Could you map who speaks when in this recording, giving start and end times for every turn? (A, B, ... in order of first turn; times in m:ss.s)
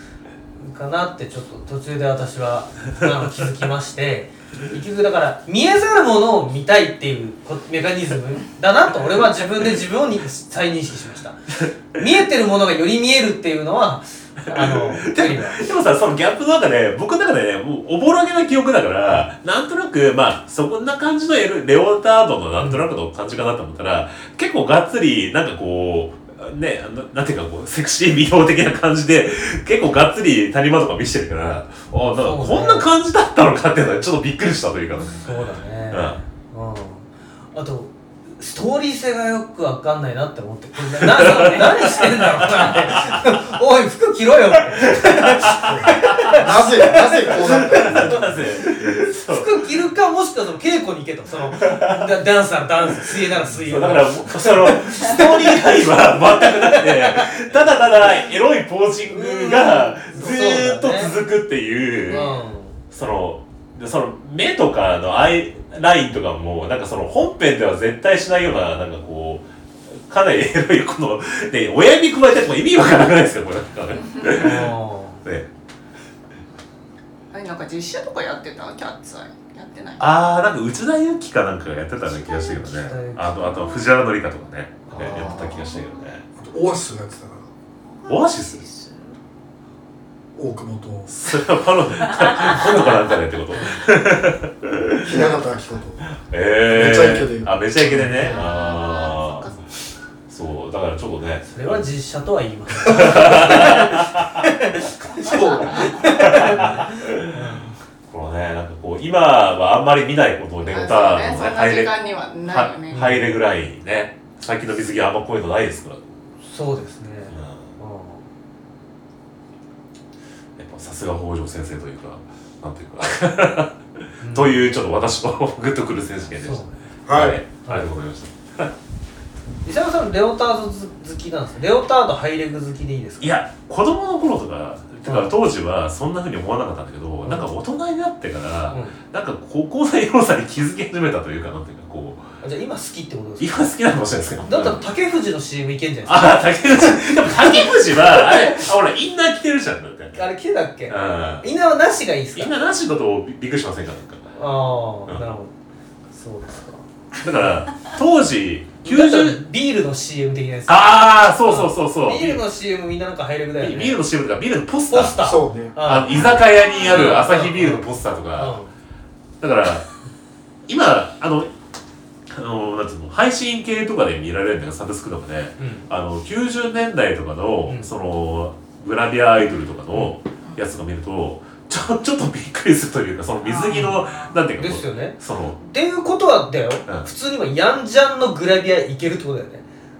0:00.6-0:15.6 A
0:14.5-0:35.3 B
0:22.6-0:22.8 A
0:32.2-0:32.9 A
0:35.2-0:57.3 A
0:35.9-0:36.2 B
0:41.0-0:43.2 B
0:44.8-0:46.7 B
0:45.6-0:48.3 C
0:47.4-0:49.5 B
0:51.5-0:52.1 B
0:53.5-1:02.2 B
0:59.1-1:01.1 A
1:02.1-1:02.8 A
1:02.9-1:14.7 B
1:14.2-1:15.2 A
1:17.3-1:20.1 D
1:20.0-1:26.2 B
1:22.1-1:22.6 D
1:22.6-1:23.3 A
1:23.4-1:23.8 D
1:24.9-1:25.3 A
1:25.0-1:26.0 D
1:26.4-1:27.4 C
1:27.9-1:29.1 D
1:28.1-1:28.6 B
1:30.3-1:31.1 C
1:31.1-1:35.3 B
1:32.2-1:32.8 D
1:35.0-1:36.0 C
1:36.2-1:39.5 B
1:36.7-1:38.3 C
1:38.0-1:38.3 A
1:38.2-1:39.6 D
1:40.3-1:41.8 B
1:41.5-1:47.7 A
1:42.9-1:44.2 B
1:45.2-1:45.8 C
1:45.3-1:46.1 D
1:46.0-1:47.4 B
1:48.1-1:51.9 B
1:50.7-1:53.2 D
1:52.5-1:56.0 B
1:52.9-1:53.3 A
1:56.4-1:58.2 A
1:57.3-1:57.7 B
2:00.6-2:08.7 B
2:04.2-2:04.7 A
2:06.4-2:06.8 A
2:07.0-2:07.4 C
2:09.6-2:13.4 A
2:13.2-2:22.3 B
2:17.2-2:17.5 A
2:18.7-2:18.9 A
2:22.4-2:23.6 A
2:23.4-2:24.8 B
2:24.4-2:26.4 A
2:26.0-2:30.2 B
2:27.4-2:28.5 A
2:30.1-2:32.5 A
2:30.9-2:31.4 B
2:32.3-2:34.3 B
2:34.3-2:35.5 A
2:36.1-2:36.8 A
2:37.2-2:39.4 B
2:38.8-2:44.0 A
2:40.7-2:42.4 B
2:43.6-2:45.2 B
2:44.9-2:47.8 A
2:45.2-2:45.7 C
2:45.8-2:48.6 B
2:48.4-2:48.7 A
2:49.4-2:49.9 B
2:50.7-2:51.5 B
2:52.3-3:05.6 B
2:55.6-2:55.8 A
3:03.4-3:04.4 D
3:03.6-3:04.0 A
3:04.5-3:09.6 A